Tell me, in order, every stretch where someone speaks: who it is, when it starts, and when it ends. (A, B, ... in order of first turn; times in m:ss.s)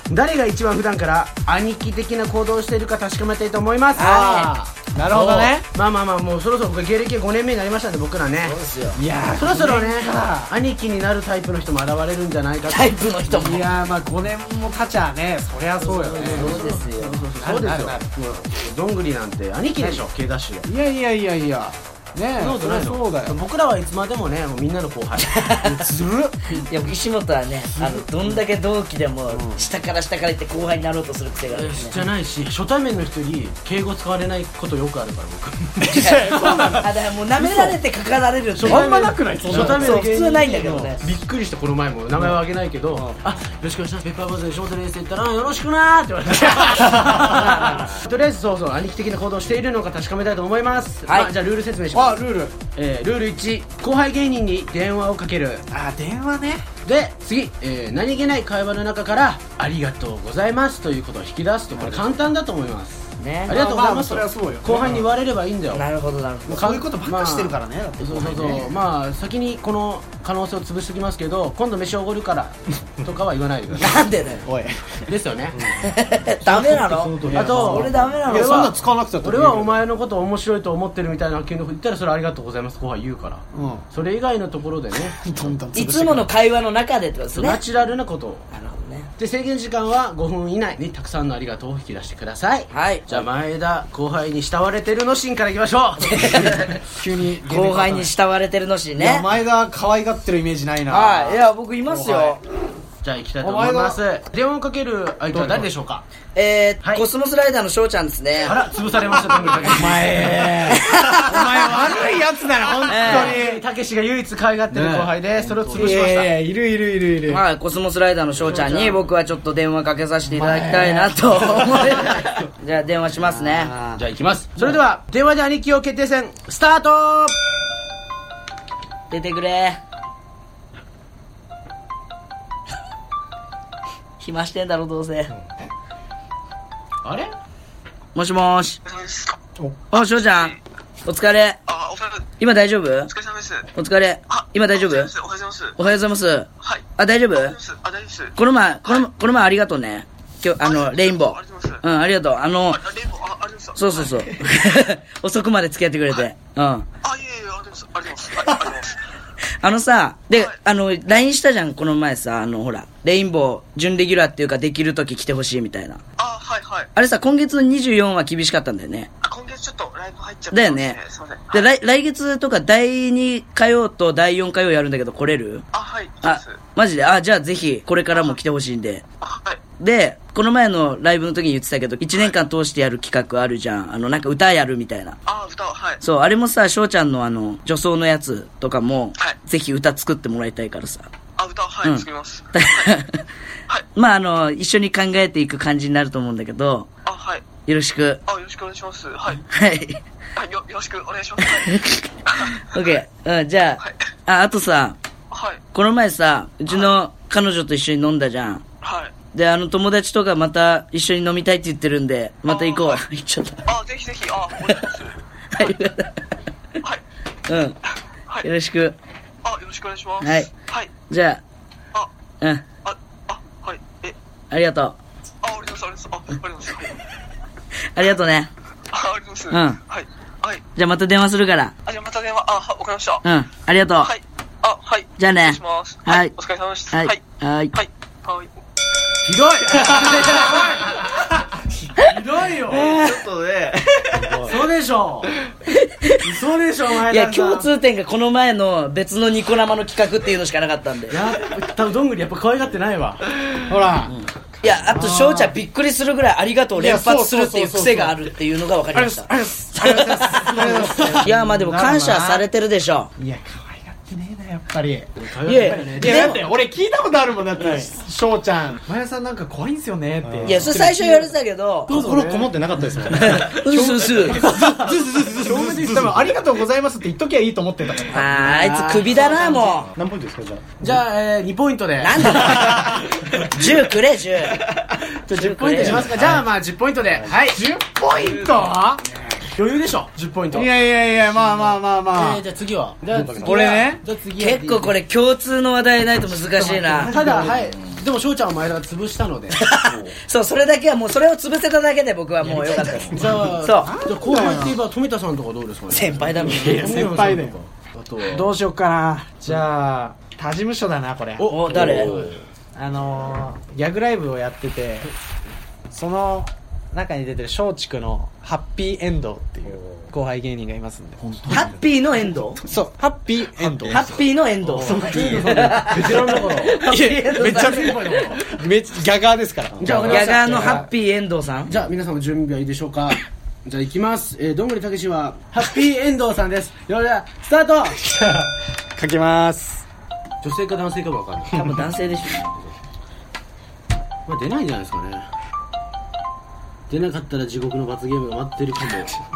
0:00.1-0:04.1 A
0:04.0-0:04.5 B
0:04.0-0:05.6 C
0:05.1-0:08.6 A
0:08.4-0:09.0 B
0:08.9-0:10.5 C
0:09.4-0:12.9 A
0:12.7-0:13.7 B
0:13.3-0:16.6 C
0:15.8-0:20.7 A
0:16.2-0:17.3 B
0:17.4-0:18.1 C
0:20.6-0:23.4 C
0:22.4-0:25.9 A
0:25.2-0:25.7 B
0:25.8-0:26.4 C
0:26.5-0:32.0 B
0:27.8-0:28.0 C
0:29.3-0:29.6 C
0:31.5-0:36.8 A
0:35.8-0:37.8 C
0:35.9-0:38.9 B
0:38.5-0:55.6 A
0:38.6-0:41.0 C
0:39.5-0:41.0 B
0:42.9-0:43.2 C
0:46.5-0:47.9 C
0:51.1-0:51.3 B
0:51.9-0:52.6 C
0:55.7-0:56.7 C
0:56.8-1:05.8 A
1:01.7-1:02.2 C
1:03.2-1:03.6 B
1:03.5-1:05.1 C
1:05.7-1:06.8 B
1:06.5-1:08.7 C
1:06.5-1:14.1 A
1:13.8-1:14.4 B
1:14.4-1:15.0 C
1:15.1-1:15.8 A
1:15.8-1:18.7 B
1:16.5-1:19.8 C
1:16.8-1:18.2 D
1:17.3-1:25.4 A
1:23.5-1:23.8 C
1:25.2-1:26.3 C
1:25.7-1:27.6 B
1:27.3-1:28.4 A
1:28.5-1:29.1 B
1:29.2-1:36.6 A
1:32.7-1:33.2 B
1:36.1-1:36.8 B
1:36.8-1:38.1 C
1:37.4-1:39.3 B
1:39.0-1:42.4 C
1:40.9-1:42.4 B
1:43.0-1:46.0 A
1:43.4-1:44.0 C
1:45.3-1:45.7 C
1:46.3-1:48.6 B
1:46.8-1:47.1 A
1:48.4-1:50.6 A
1:49.6-1:53.6 C
1:50.7-1:51.6 B
1:52.9-1:53.4 B
1:52.9-1:56.3 A
1:54.7-1:55.1 C
1:55.7-1:57.4 C
1:57.3-2:03.7 B
1:58.4-1:59.0 A
2:00.3-2:02.2 C
2:03.2-2:04.0 C
2:04.0-2:07.4 A
2:09.1-2:09.8 B
2:14.2-2:15.3 B
2:17.0-2:17.3 A
2:18.1-2:18.8 B
2:18.8-2:19.4 E
2:19.9-2:20.5 B
2:19.9-2:20.6 E
2:21.0-2:21.6 B
2:21.6-2:22.3 E
2:22.4-2:23.1 B
2:23.1-2:23.7 E
2:23.7-2:25.1 B
2:24.3-2:25.8 E
2:25.8-2:27.6 B
2:26.6-2:28.3 E
2:28.4-2:32.8 B
2:30.6-2:31.8 E
2:32.7-2:34.3 E
2:33.8-2:36.9 B
2:37.0-2:38.9 E
2:39.6-2:46.0 B
2:40.3-2:40.6 E
2:46.2-2:46.9 E
2:46.9-2:49.1 B
2:49.2-2:51.7 E
2:50.5-2:51.0 B
2:51.5-2:55.6 B
2:55.7-2:56.6 E
2:56.2-2:59.0 B
2:58.1-2:58.4 E
2:59.2-2:59.6 E
2:59.8-3:05.2 B
3:02.1-3:02.4 E
3:05.2-3:06.0 E
3:06.0-3:11.1 B
3:11.4-3:13.0 E
3:11.8-3:13.2 B
3:13.9-3:16.9 B
3:17.0-3:17.5 E
3:17.6-3:18.2 B
3:18.3-3:19.4 E
3:19.5-3:20.0 B
3:20.4-3:23.0 E
3:21.4-3:25.0 B
3:25.3-3:25.6 E
3:25.7-3:28.6 B
3:26.7-3:26.9 E
3:28.8-3:29.1 E
3:29.3-3:33.6 B
3:32.5-3:33.0 E
3:33.6-3:35.2 E
3:35.5-3:36.2 B
3:37.5-3:37.8 B
3:38.4-3:39.0 B
3:39.4-3:40.9 E
3:40.2-3:40.5 B
3:41.1-3:41.4 B
3:42.8-3:44.2 E
3:44.5-3:45.0 B
3:45.4-3:46.9 E
3:47.9-3:48.5 B
3:48.9-3:50.6 E
3:49.5-3:49.8 B
3:50.8-3:51.7 B
3:51.8-3:53.2 E
3:53.2-3:54.1 B
3:54.0-3:58.5 E
3:55.2-3:56.3 B
3:56.9-3:57.7 B
3:59.2-4:01.0 A
4:02.0-4:03.1 A
4:02.6-4:03.3 B
4:04.1-4:04.6 D
4:04.4-4:05.3 A
4:05.7-4:06.2 B
4:06.2-4:07.7 A
4:07.0-4:11.3 B
4:11.1-4:13.2 A
4:13.6-4:15.6 C
4:14.1-4:23.1 B
4:16.7-4:18.2 C
4:18.9-4:22.4 C
4:20.6-4:21.2 A
4:23.2-4:31.3 C
4:25.2-4:26.4 A
4:25.4-4:26.4 B
4:27.6-4:27.8 B
4:30.2-4:30.7 D
4:30.4-4:31.9 B
4:31.9-4:32.5 A
4:31.9-4:33.5 D
4:33.1-4:34.5 B
4:33.4-4:38.3 C
4:34.4-4:36.4 A
4:38.1-4:39.9 B
4:38.2-4:39.8 A
4:40.0-4:40.8 D
4:40.8-4:42.9 A
4:42.0-4:44.7 B
4:45.3-4:46.1 B
4:45.3-4:47.7 A
4:45.6-4:46.4 C
4:47.4-4:49.0 C
4:49.4-4:50.7 A
4:50.5-4:52.4 C
4:51.2-4:54.9 A
4:53.1-4:53.8 D
4:53.4-4:54.0 C
4:54.4-4:57.2 B
4:56.6-4:57.6 C
4:57.0-4:59.7 A
4:57.3-4:57.6 D
4:59.5-5:03.9 B
5:02.4-5:08.5 A
5:03.8-5:04.8 C
5:05.9-5:07.0 B
5:06.5-5:07.6 C
5:08.2-5:15.1 C
5:11.4-5:12.4 A
5:11.4-5:12.2 B
5:15.9-5:21.7 C
5:21.5-5:22.6 B
5:22.6-5:24.0 C
5:23.9-5:28.2 B
5:24.8-5:25.2 C
5:24.8-5:28.4 A
5:24.8-5:25.7 D
5:26.8-5:30.9 C
5:29.8-5:30.1 D
5:29.8-5:30.8 A
5:30.0-5:31.7 B
5:31.7-5:38.0 A
5:38.0-5:39.8 C
5:40.4-5:41.6 A
5:41.5-5:42.7 B
5:44.2-5:45.3 A
5:46.9-5:49.2 A